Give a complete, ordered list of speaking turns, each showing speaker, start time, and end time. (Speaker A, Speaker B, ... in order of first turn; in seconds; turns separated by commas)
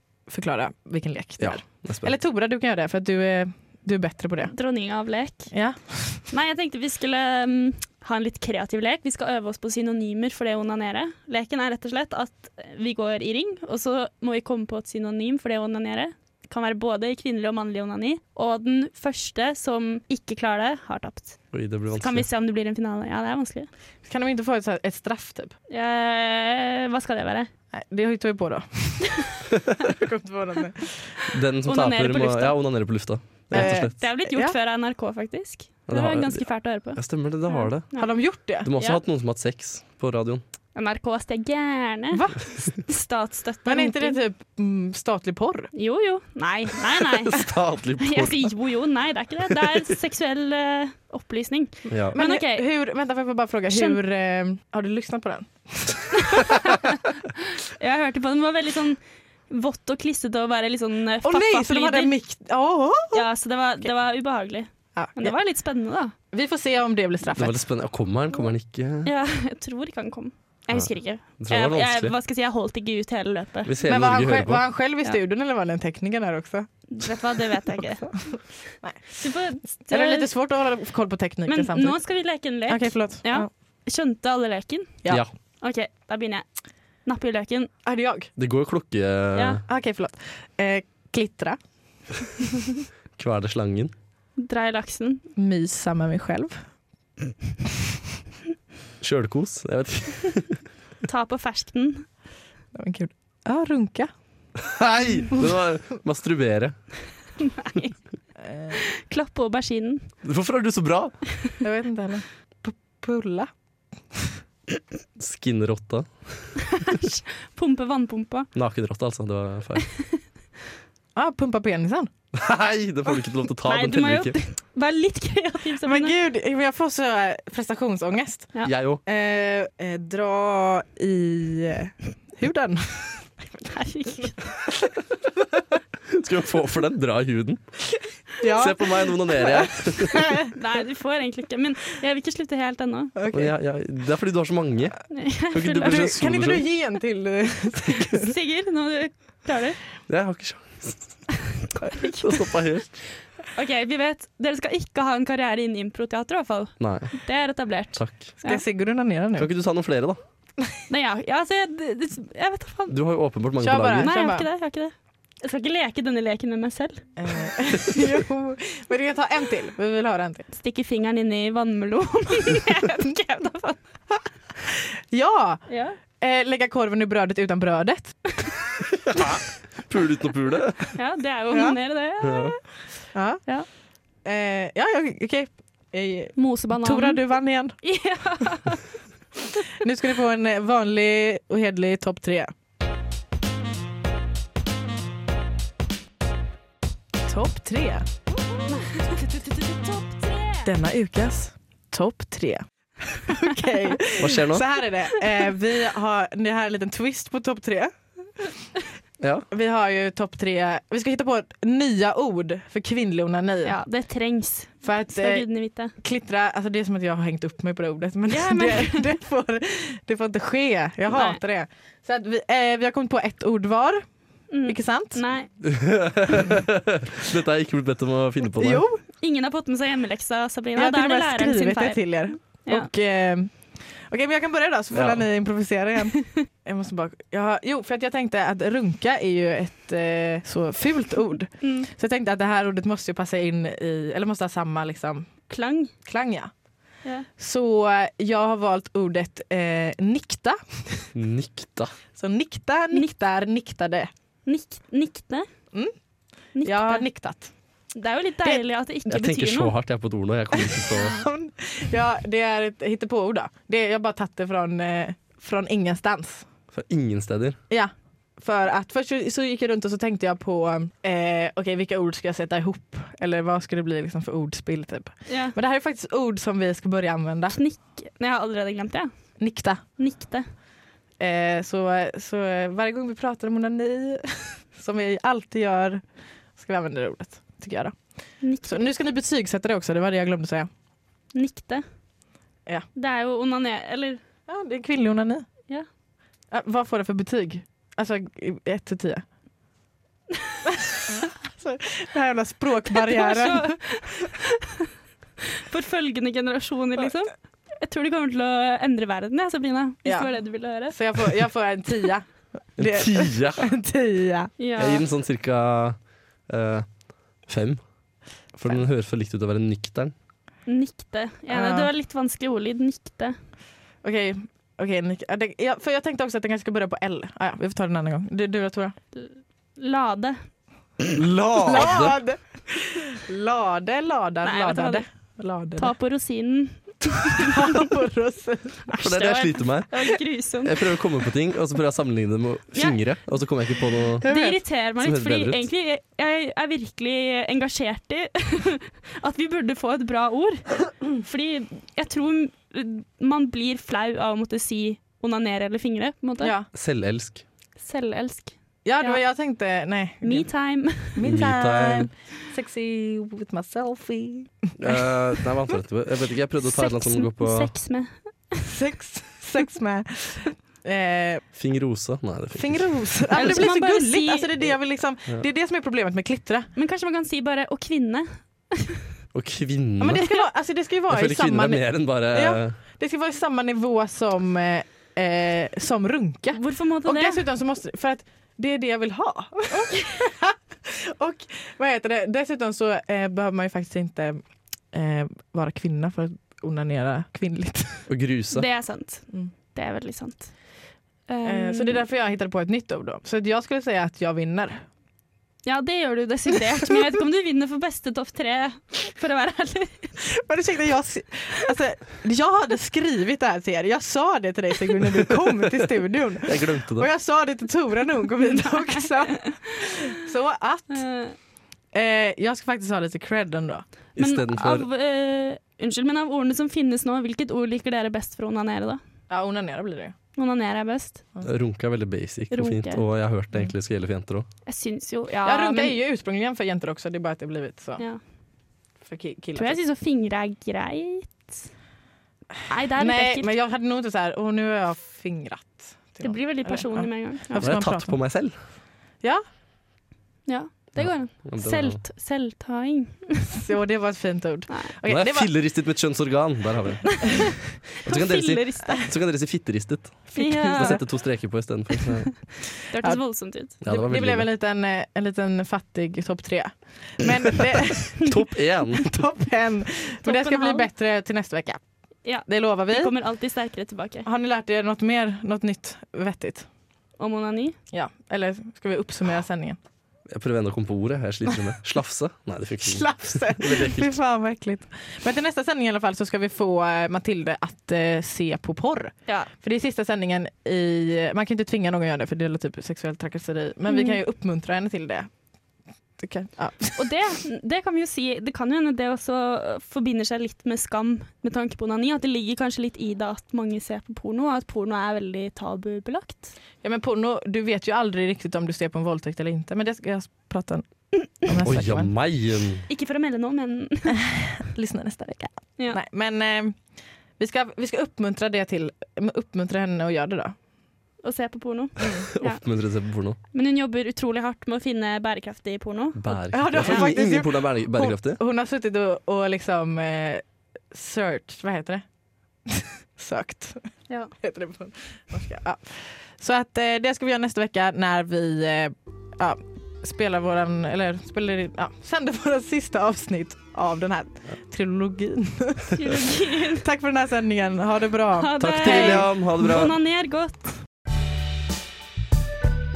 Speaker A: 0.3-4.5, Speaker B: 1.4-2.1, Speaker C: 4.5-5.5, Speaker A: 5.5-6.2, Speaker C: 6.3-23.7, Speaker B: 21.5-22.2, Speaker A: 24.0-25.5, Speaker C: 25.7-27.5, Speaker A: 27.7-29.2, Speaker A: 29.8-31.1, Speaker B: 31.3-33.9, Speaker C: 31.6-32.6, Speaker C: 33.5-39.0, Speaker A: 33.5-34.5, Speaker B: 35.9-38.0, Speaker A: 38.0-38.7, Speaker B: 38.6-40.4, Speaker C: 40.7-44.2, Speaker A: 42.1-42.6, Speaker A: 43.6-45.7, Speaker C: 45.7-52.6, Speaker B: 47.0-48.5, Speaker B: 51.9-52.1, Speaker A: 51.9-56.7, Speaker C: 53.7-54.0, Speaker C: 56.4-56.9, Speaker C: 57.8-62.1, Speaker A: 61.2-63.2, Speaker C: 63.1-66.1, Speaker A: 64.9-65.3, Speaker A: 66.3-67.6, Speaker B: 67.3-69.1, Speaker C: 69.0-73.7, Speaker B: 70.7-72.1, Speaker B: 73.6-74.7, Speaker A: 73.8-77.1, Speaker C: 76.9-78.1, Speaker A: 77.7-79.2, Speaker C: 79.2-80.3, Speaker A: 79.9-83.5, Speaker C: 81.5-86.5, Speaker C: 87.0-87.7, Speaker A: 87.8-88.3, Speaker B: 88.3-89.6, Speaker C: 89.3-89.6, Speaker A: 89.7-91.6, Speaker B: 93.2-93.9, Speaker C: 94.4-95.2, Speaker A: 95.3-96.5, Speaker B: 99.0-100.5, Speaker C: 101.0-102.0, Speaker A: 102.7-104.1, Speaker B: 104.6-106.8, Speaker C: 107.5-107.9, Speaker A: 108.4-108.8, Speaker C: 108.7-110.1, Speaker B: 110.2-111.2, Speaker A: 111.6-113.5, Speaker B: 115.2-116.5, Speaker C: 116.7-118.5, Speaker B: 118.5-119.8, Speaker A: 121.2-122.1, Speaker B: 122.3-124.3, Speaker C: 123.6-126.1, Speaker A: 125.8-133.3, Speaker B: 128.6-129.0, Speaker C: 133.7-134.5, Speaker B: 136.1-137.6, Speaker A: 138.4-140.4, Speaker B: 138.5-140.2, Speaker C: 140.5-143.1, Speaker A: 143.2-143.5, Speaker B: 143.3-146.7, Speaker C: 145.1-146.1, Speaker A: 145.8-148.3, Speaker C: 148.2-149.8, Speaker B: 150.1-151.2, Speaker C: 151.9-152.3, Speaker B: 152.2-153.0, Speaker C: 153.5-158.6, Speaker B: 156.8-157.1, Speaker B: 157.9-158.3, Speaker A: 158.4-159.5, Speaker B: 159.4-160.2, Speaker C: 160.9-163.0, Speaker B: 162.9-164.1, Speaker A: 163.6-164.4, Speaker C: 163.9-167.1, Speaker A: 167.2-170.4, Speaker C: 170.5-173.8, Speaker A: 175.1-175.7, Speaker C: 175.7-176.0, Speaker A: 176.2-178.3, Speaker B: 179.1-180.8, Speaker C: 180.9-182.6, Speaker A: 181.5-181.8, Speaker B: 182.2-182.6, Speaker A: 183.1-183.4, Speaker A: 184.2-187.7, Speaker C: 186.3-187.2, Speaker C: 187.8-188.8, Speaker A: 189.8-192.5, Speaker A: 197.2-198.1, Speaker C: 198.7-200.7, Speaker A: 200.6-208.1, Speaker B: 204.2-204.7, Speaker B: 209.2-209.5, Speaker A: 209.5-213.8, Speaker C: 213.6-215.9, Speaker A: 214.8-224.1, Speaker C: 218.3-219.0, Speaker C: 221.1-221.4, Speaker C: 224.5-225.5, Speaker A: 224.7-225.2, Speaker B: 225.6-228.8, Speaker A: 228.6-229.0, Speaker C: 229.2-232.9, Speaker A: 230.8-245.3, Speaker B: 234.9-235.3, Speaker C: 241.6-241.9, Speaker C: 245.5-245.9, Speaker A: 246.0-246.5, Speaker A: 247.4-251.1, Speaker B: 251.1-251.9, Speaker A: 252.1-254.1, Speaker C: 254.4-255.5, Speaker C: 256.5-257.1, Speaker A: 256.6-257.5, Speaker C: 257.9-259.7, Speaker B: 259.0-261.1, Speaker A: 260.5-266.4, Speaker B: 266.7-267.6, Speaker A: 267.7-277.6, Speaker C: 275.3-275.6, Speaker C: 277.5-280.4, Speaker A: 279.4-279.8, Speaker A: 281.2-286.0, Speaker A: 286.6-290.7, Speaker C: 288.4-288.9, Speaker C: 291.3-291.8, Speaker C: 292.9-294.2, Speaker A: 294.5-295.5, Speaker A: 296.5-299.2, Speaker A: 301.1-303.8, Speaker C: 303.1-304.5, Speaker C: 305.7-310.9, Speaker A: 310.0-310.3, Speaker A: 310.8-314.5, Speaker B: 312.8-313.7, Speaker C: 314.6-315.0, Speaker B: 314.8-316.9, Speaker B: 317.4-317.8, Speaker B: 318.6-320.1, Speaker C: 320.7-323.4, Speaker A: 321.5-321.9, Speaker A: 324.0-328.9, Speaker C: 329.1-330.4, Speaker B: 331.1-332.1, Speaker A: 331.6-335.9, Speaker C: 334.4-335.0, Speaker C: 335.8-337.6, Speaker A: 337.4-338.9, Speaker C: 338.9-340.7, Speaker B: 338.9-344.2, Speaker C: 342.7-343.0, Speaker A: 344.2-344.6, Speaker C: 344.2-356.5, Speaker B: 345.0-345.7, Speaker A: 356.4-356.7, Speaker B: 356.7-357.4, Speaker C: 357.8-359.2, Speaker A: 358.8-360.5, Speaker C: 360.2-361.2, Speaker A: 361.1-364.5, Speaker B: 361.2-362.1, Speaker B: 364.8-367.7, Speaker C: 366.6-368.1, Speaker A: 368.6-371.4, Speaker B: 371.5-373.1, Speaker A: 372.5-376.7, Speaker C: 373.3-374.5, Speaker C: 376.7-379.0, Speaker B: 379.3-380.3, Speaker A: 380.0-398.1, Speaker B: 381.1-382.8, Speaker C: 386.5-387.4, Speaker B: 398.1-398.6, Speaker C: 398.5-400.7, Speaker C: 401.3-402.0, Speaker A: 401.4-404.8, Speaker C: 405.6-410.2, Speaker A: 410.3-421.0, Speaker B: 416.4-417.1, Speaker C: 418.5-419.5, Speaker C: 420.9-421.3, Speaker A: 421.9-423.9, Speaker B: 424.1-424.9, Speaker C: 424.2-429.0, Speaker A: 429.3-430.1, Speaker C: 430.4-431.2, Speaker B: 431.4-434.4, Speaker C: 432.5-433.0, Speaker C: 434.6-436.0, Speaker A: 435.4-438.0, Speaker A: 439.0-439.8, Speaker C: 439.6-441.6, Speaker C: 442.7-443.5, Speaker A: 442.9-448.2, Speaker C: 446.2-447.7, Speaker B: 447.6-448.5, Speaker C: 450.5-453.6, Speaker B: 451.0-452.0, Speaker A: 453.6-455.5, Speaker B: 455.0-462.5, Speaker C: 458.0-459.1, Speaker A: 460.3-461.0, Speaker C: 460.3-461.1, Speaker C: 462.9-463.7, Speaker A: 463.7-468.4, Speaker B: 463.8-464.5, Speaker B: 468.2-469.2, Speaker A: 468.9-471.8, Speaker C: 470.2-470.9, Speaker C: 472.2-474.3, Speaker A: 472.4-473.1, Speaker A: 474.2-476.7, Speaker C: 477.2-477.8, Speaker A: 477.9-479.8, Speaker B: 480.3-484.2, Speaker A: 482.8-495.3, Speaker C: 493.9-494.2, Speaker A: 496.2-497.0, Speaker C: 497.0-506.5, Speaker A: 506.8-512.1, Speaker B: 511.6-512.9, Speaker C: 512.9-514.2, Speaker A: 514.3-516.8, Speaker A: 517.4-520.5, Speaker C: 521.2-522.6, Speaker B: 522.3-523.4, Speaker C: 523.5-527.1, Speaker B: 526.1-528.4, Speaker A: 526.5-532.0, Speaker A: 532.7-533.8, Speaker A: 534.4-546.2, Speaker C: 546.0-546.8, Speaker A: 546.8-549.3, Speaker C: 548.4-550.7, Speaker B: 548.6-550.0